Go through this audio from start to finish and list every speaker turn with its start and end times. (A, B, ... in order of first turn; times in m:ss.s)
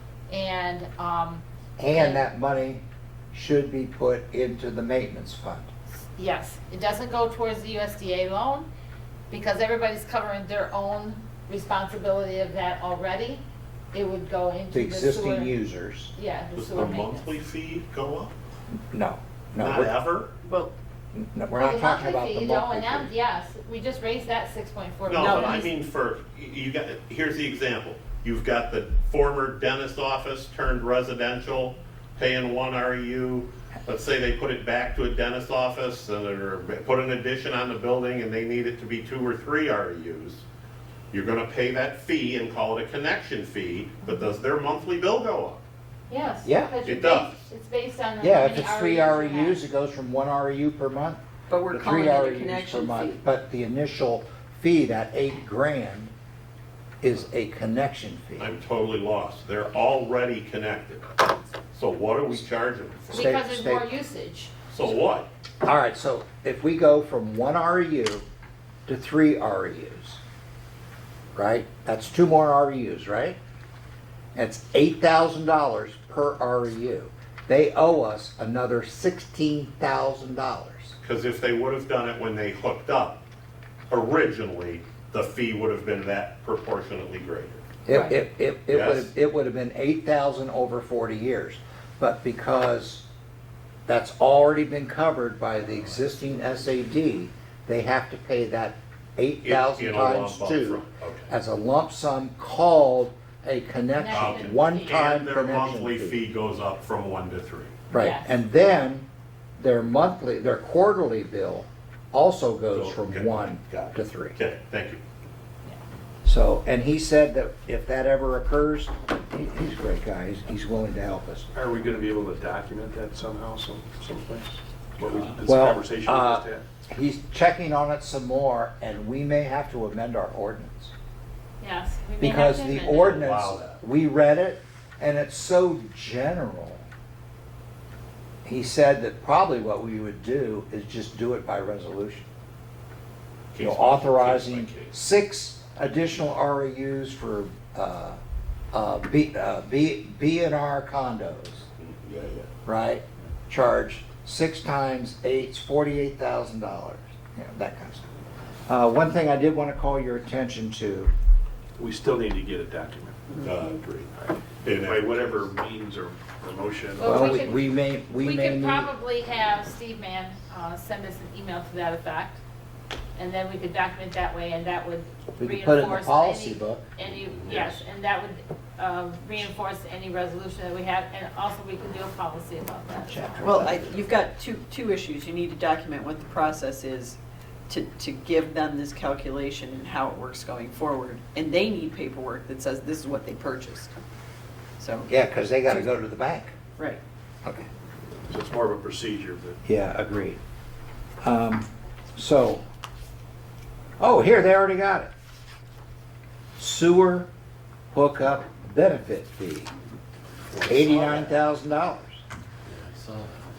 0:00.3-0:02.2 A
0:01.8-0:05.7 B
0:06.1-0:08.7 A
0:09.3-0:15.5 A
0:14.7-0:16.1 B
0:16.1-0:17.4 A
0:16.5-0:18.3 C
0:18.9-0:19.9 B
0:19.6-0:20.3 C
0:20.4-0:20.7 D
0:21.1-0:23.1 B
0:21.5-0:25.7 A
0:25.1-0:40.4 C
0:25.2-0:25.5 D
0:41.1-0:45.6 C
0:46.1-0:49.6 A
0:46.4-0:46.7 B
0:46.8-0:47.4 C
0:48.2-0:51.2 B
0:51.5-0:53.2 D
0:51.7-0:56.1 B
0:57.0-0:58.5 B
0:58.4-1:03.2 C
1:03.1-1:04.5 A
1:03.1-1:03.9 B
1:04.7-1:05.3 C
1:05.6-1:08.2 B
1:08.8-1:10.2 B
1:11.3-1:13.4 B
1:14.3-1:21.0 B
1:21.0-1:23.2 C
1:23.9-1:27.6 C
1:27.8-1:33.1 B
1:28.7-1:29.1 C
1:33.9-1:46.2 B
1:39.4-1:41.3 C
1:43.9-1:45.0 A
1:44.1-1:47.8 C
1:47.9-1:54.4 B
1:47.9-1:48.3 A
1:52.7-1:55.0 C
1:56.2-2:01.5 B
2:01.5-2:06.6 E
2:05.4-2:10.9 B
2:11.6-2:13.2 A
2:12.2-2:16.8 B
2:12.9-2:13.8 C
2:18.4-2:22.3 B
2:23.5-2:24.9 C
2:23.6-2:28.2 B
2:28.7-2:31.7 B
2:31.8-2:32.5 C
2:32.6-2:38.0 B
2:38.7-2:41.1 B
2:41.8-2:43.2 E
2:43.4-2:44.1 C
2:44.2-2:47.3 E
2:44.6-2:45.5 C
2:47.0-2:52.4 A
2:47.0-2:48.9 B
2:53.2-3:03.5 A
2:55.4-2:56.8 B
2:57.4-2:57.7 C
3:03.0-3:04.0 B
3:03.4-3:13.9 D
3:14.8-3:15.1 D
3:15.1-3:16.5 B
3:15.6-3:15.9 D
3:18.3-3:19.6 E
3:19.6-3:20.4 B
3:21.2-3:22.6 B
3:24.0-3:25.1 B
3:26.6-3:27.3 B
3:27.9-3:29.7 B
3:30.6-3:32.2 B
3:32.7-3:33.0 C